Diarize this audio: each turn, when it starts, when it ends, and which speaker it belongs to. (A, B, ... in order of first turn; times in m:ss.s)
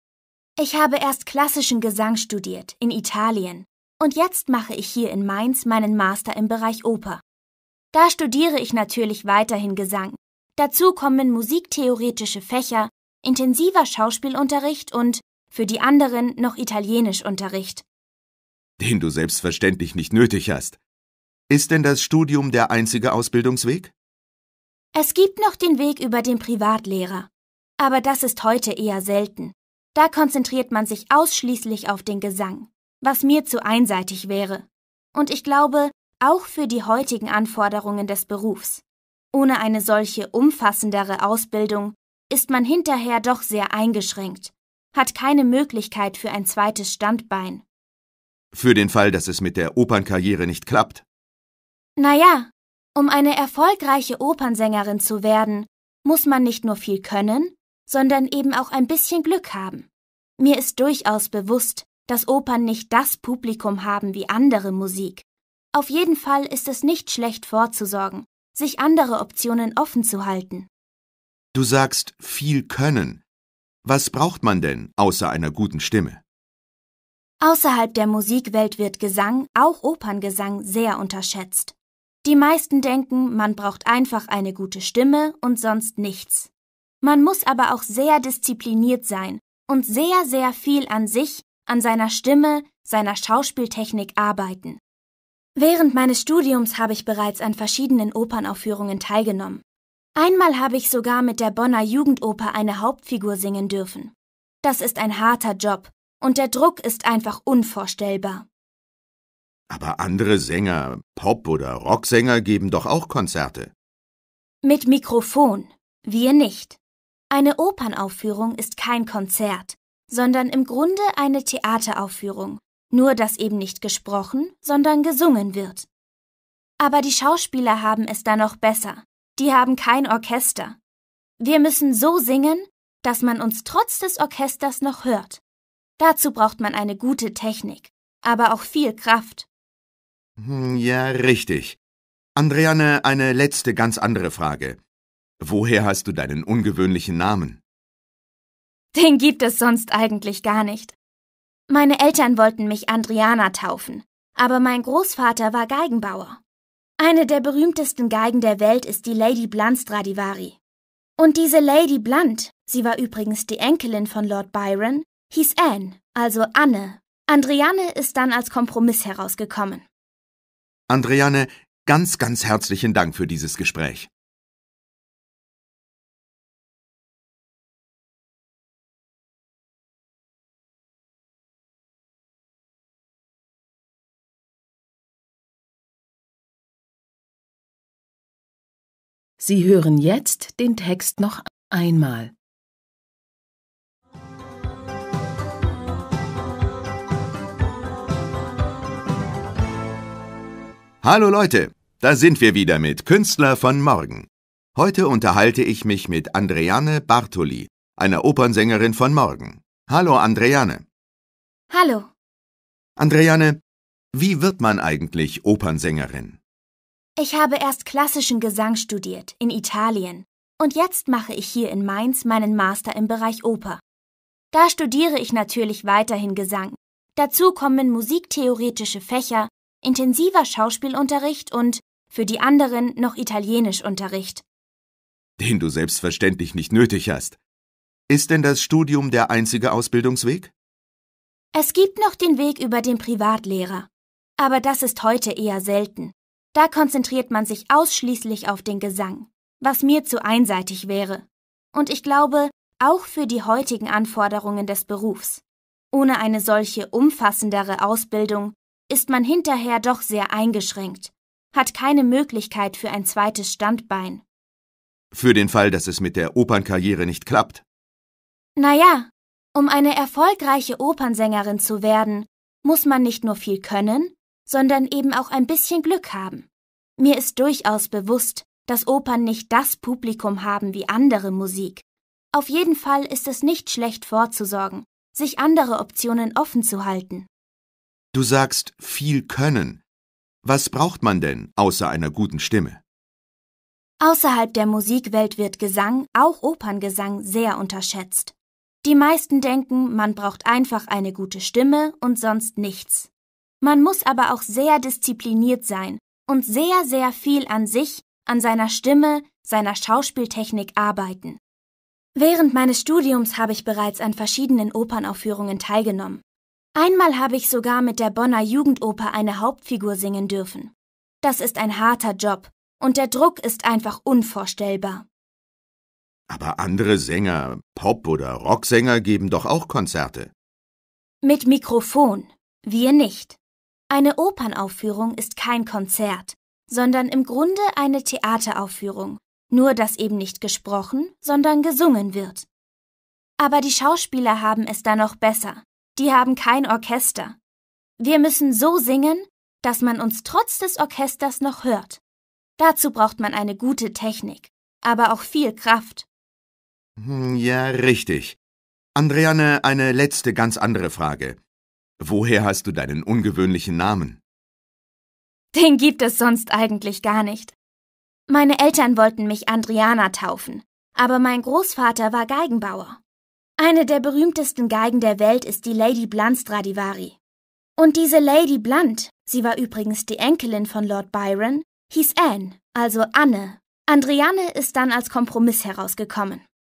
0:00.6-0:07.2 A
0:07.9-0:17.8 A
0:18.8-0:20.8 B
0:21.5-0:23.9 B
0:25.0-0:47.6 A
0:48.5-0:51.0 B
0:52.0-1:10.7 A
1:11.5-1:13.2 B
1:13.8-1:16.2 B
1:17.4-1:26.5 A
1:27.0-1:34.8 A
1:35.6-1:39.6 A
1:40.2-1:48.5 A
1:49.7-1:53.7 B
1:54.6-1:56.8 A
1:57.3-2:05.9 A
2:06.8-2:10.8 A
2:11.4-2:15.4 A
2:16.0-2:19.5 A
2:20.4-2:21.8 B
2:22.4-2:24.8 B
2:25.4-2:27.6 B
2:28.9-2:31.0 A
2:31.7-2:36.4 A
2:37.0-2:40.6 A
2:41.2-2:49.8 A
2:50.9-2:54.1 B
3:09.4-3:12.3 C
3:21.0-3:30.8 B
3:31.7-3:32.1 A
3:33.0-3:33.6 B
3:34.1-3:36.4 B
3:37.2-3:43.8 A
3:44.5-3:54.4 A
3:55.4-3:57.4 B
3:58.1-4:00.5 B
4:01.5-4:24.2 A
4:25.1-4:27.6 B
4:28.6-4:36.5 A
4:37.0-4:47.3 A
4:48.1-4:49.8 B
4:50.4-4:52.8 B
4:54.0-5:03.1 A
5:03.6-5:11.4 A
5:12.2-5:16.2 A
5:16.8-5:25.0 A
5:26.3-5:30.3 B
5:31.2-5:33.4 A
5:33.9-5:42.5 A
5:43.4-5:47.4 A
5:48.0-5:52.0 A
5:52.6-5:56.1 A
5:57.0-5:58.4 B
5:59.0-6:01.4 B
6:02.0-6:04.2 B
6:05.5-6:07.6 A
6:08.3-6:13.0 A
6:13.6-6:17.2 A
6:17.8-6:26.4 A